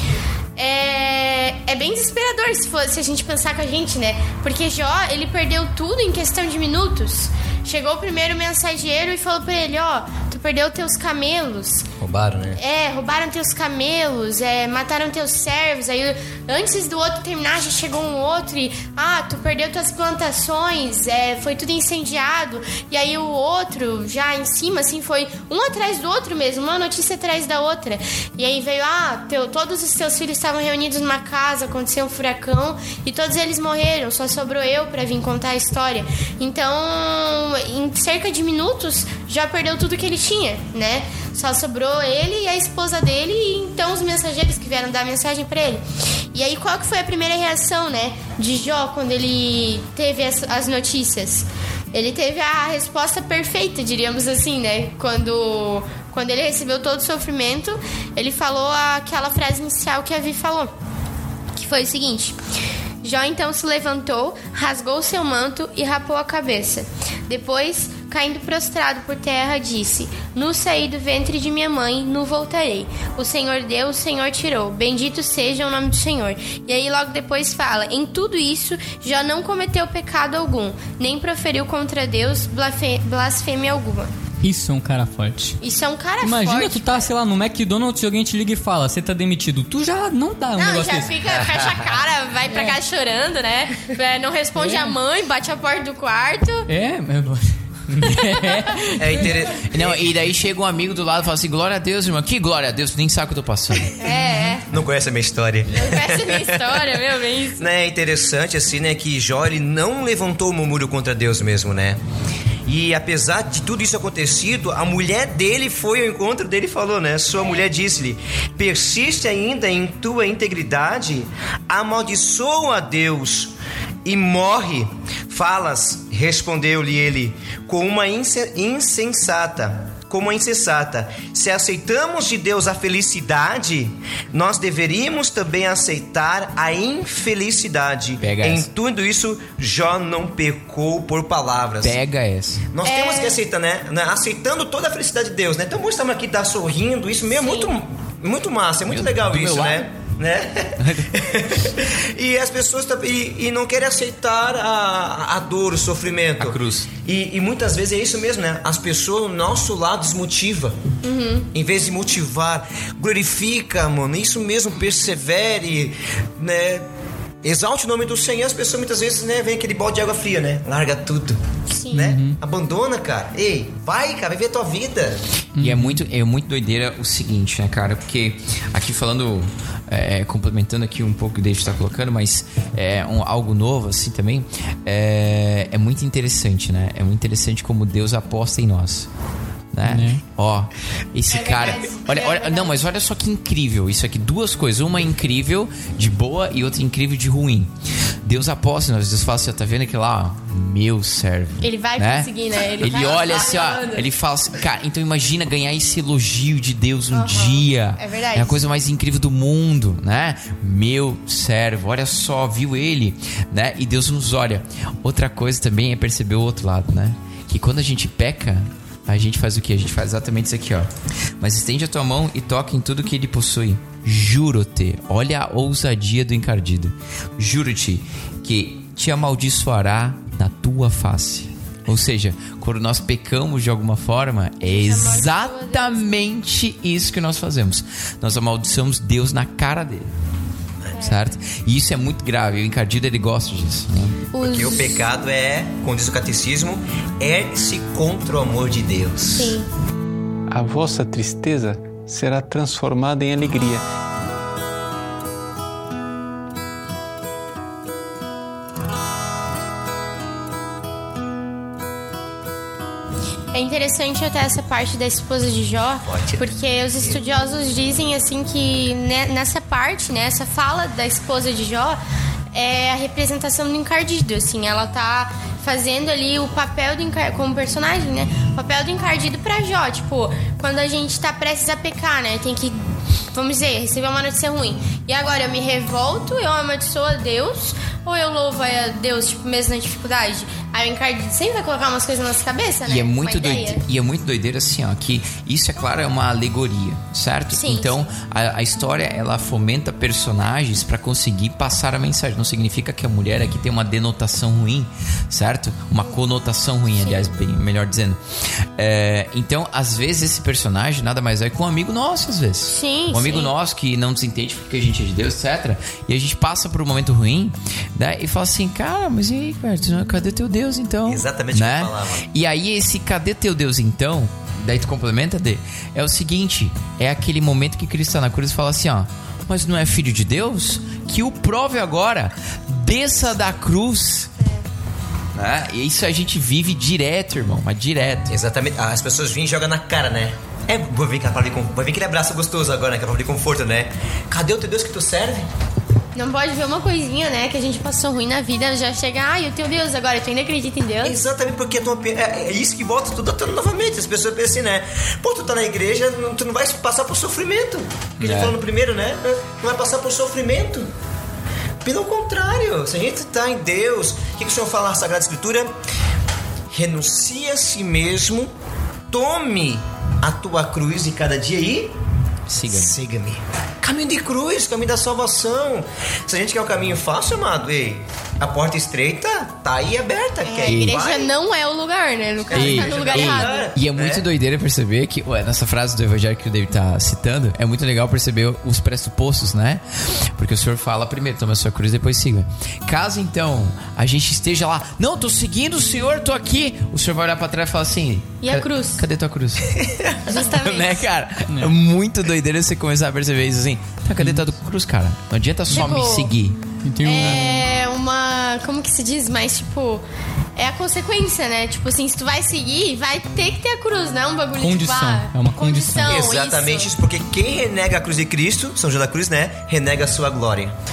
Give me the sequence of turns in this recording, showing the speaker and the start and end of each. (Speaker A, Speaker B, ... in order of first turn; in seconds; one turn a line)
Speaker A: 0.6-11.9
Speaker B: 12.0-12.6
Speaker A: 12.6-60.7
Speaker A: 61.5-62.4
Speaker A: 63.0-84.1
Speaker C: 84.4-85.6
Speaker A: 85.6-87.1
Speaker C: 86.2-91.2
Speaker A: 90.5-96.7
Speaker B: 91.3-91.8
Speaker C: 92.5-92.8
Speaker C: 94.6-94.9
Speaker C: 96.7-99.4
Speaker A: 98.4-98.7
Speaker B: 99.0-100.1
Speaker D: 99.6-104.0
Speaker A: 104.0-104.7
Speaker B: 104.7-107.0
Speaker A: 105.7-107.7
Speaker B: 107.6-112.0
Speaker B: 112.7-123.5
Speaker B: 124.0-142.0
Speaker D: 138.2-138.7
Speaker D: 141.8-142.6
Speaker B: 142.7-160.8
Speaker A: 142.8-143.4
Speaker A: 147.3-147.7
Speaker D: 148.9-149.9
Speaker D: 150.8-151.2
Speaker D: 156.4-156.9
Speaker A: 161.0-161.5
Speaker B: 161.5-166.9
Speaker B: 167.4-171.4
Speaker A: 171.7-172.2
Speaker B: 171.9-175.2
Speaker C: 171.9-172.4
Speaker C: 175.6-176.0
Speaker D: 175.6-189.1
Speaker D: 189.7-197.7
Speaker C: 189.8-190.2
Speaker A: 191.3-192.8
Speaker D: 198.2-240.1
Speaker A: 201.6-204.1
Speaker A: 207.1-208.7
Speaker A: 234.6-236.1
Speaker A: 240.9-241.3
Speaker D: 241.0-244.2
Speaker A: 244.3-245.1
Speaker B: 244.4-249.6
Speaker A: 249.3-249.7
Speaker E: 250.5-253.8
Speaker A: 263.5-272.0
Speaker B: 266.0-266.5
Speaker A: 272.5-293.8
Speaker D: 292.9-334.3
Speaker A: 297.5-298.1
Speaker A: 307.0-307.3
Speaker A: 312.7-313.5
Speaker B: 321.1-322.3
Speaker D: 335.4-338.3
Speaker B: 338.3-345.5
Speaker A: 346.1-351.2
Speaker B: 351.0-360.9
Speaker D: 358.2-358.6
Speaker B: 361.8-365.7
Speaker B: 366.7-368.5
Speaker B: 369.1-371.9
Speaker D: 372.5-373.0
Speaker B: 372.6-381.3
Speaker A: 380.4-383.7
Speaker D: 380.7-381.0
Speaker B: 382.5-384.2
Speaker D: 382.5-399.7
Speaker A: 398.4-399.0
Speaker B: 399.8-400.2
Speaker A: 400.3-401.0
Speaker D: 400.5-406.6
Speaker C: 401.5-401.7
Speaker C: 404.2-404.4
Speaker A: 405.7-406.3
Speaker C: 406.8-407.6
Speaker A: 407.0-410.0
Speaker A: 410.6-416.9
Speaker C: 414.6-416.2
Speaker B: 416.1-420.7